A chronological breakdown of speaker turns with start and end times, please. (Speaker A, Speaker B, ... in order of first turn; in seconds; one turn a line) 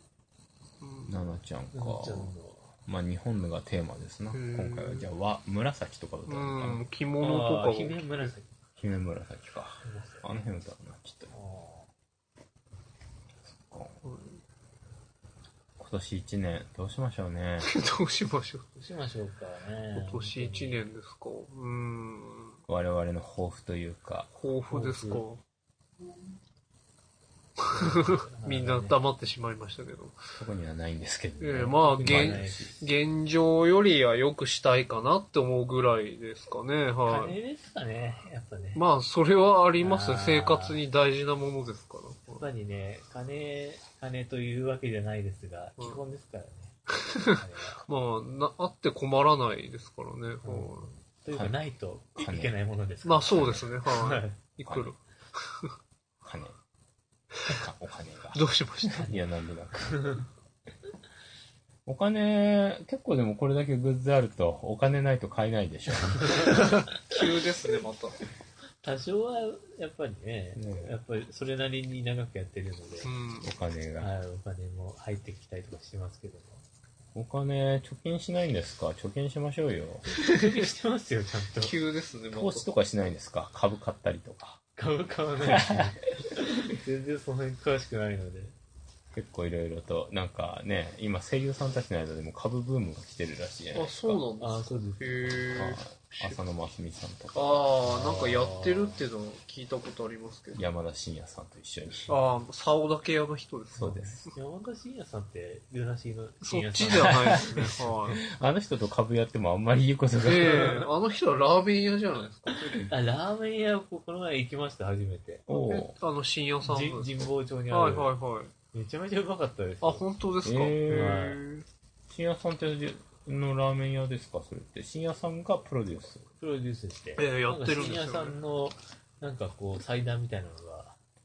Speaker A: 0.8-1.1
Speaker B: 1.1-2.3
Speaker C: 1.7-2.7
Speaker B: 2.9-6.8
Speaker A: 4.3-5.1
Speaker A: 6.3-8.3
Speaker C: 7.2-8.5
Speaker B: 8.8-11.3
Speaker C: 9.8-10.4
Speaker C: 11.3-11.9
Speaker B: 13.4-13.9
Speaker A: 14.0-14.4
Speaker B: 15.8-17.7
Speaker A: 17.6-18.6
Speaker C: 18.7-20.8
Speaker A: 19.9-22.6
Speaker B: 22.7-24.3
Speaker A: 24.4-25.4
Speaker C: 24.7-25.2
Speaker C: 27.7-29.0
Speaker A: 27.8-30.1
Speaker B: 30.4-32.8
Speaker A: 31.4-37.3
Speaker C: 31.9-32.8
Speaker C: 37.0-38.8
Speaker A: 38.7-42.4
Speaker C: 39.8-40.8
Speaker C: 42.3-47.8
Speaker A: 47.0-50.9
Speaker C: 50.4-54.4
Speaker B: 51.3-51.6
Speaker B: 52.2-52.5
Speaker A: 53.0-55.7
Speaker B: 53.3-53.6
Speaker B: 54.6-54.9
Speaker B: 56.2-56.6
Speaker B: 57.5-60.2
Speaker A: 58.3-59.1
Speaker C: 59.9-60.2
Speaker B: 61.9-66.6
Speaker A: 66.3-68.2
Speaker C: 68.8-73.1
Speaker B: 70.5-70.9
Speaker A: 73.0-73.5
Speaker B: 73.4-74.1
Speaker C: 74.0-76.6
Speaker B: 77.1-80.0
Speaker C: 80.1-81.7
Speaker A: 81.6-82.7
Speaker B: 82.3-84.6
Speaker C: 84.8-88.5
Speaker B: 85.5-85.9
Speaker B: 89.1-94.2
Speaker A: 93.7-96.4
Speaker C: 94.4-95.6
Speaker B: 95.5-97.6
Speaker A: 97.3-100.6
Speaker C: 97.8-99.0
Speaker B: 100.5-102.2
Speaker A: 102.1-104.3
Speaker B: 103.8-104.2
Speaker C: 103.8-107.9
Speaker A: 106.4-108.2
Speaker B: 106.9-110.9
Speaker A: 110.2-112.8
Speaker C: 112.9-115.6
Speaker B: 115.5-115.9
Speaker A: 115.5-118.5
Speaker C: 116.6-118.1
Speaker C: 118.7-120.0
Speaker A: 119.8-121.6
Speaker B: 120.4-121.3
Speaker C: 120.9-121.4
Speaker B: 122.1-126.2
Speaker C: 126.4-131.0
Speaker A: 127.2-128.3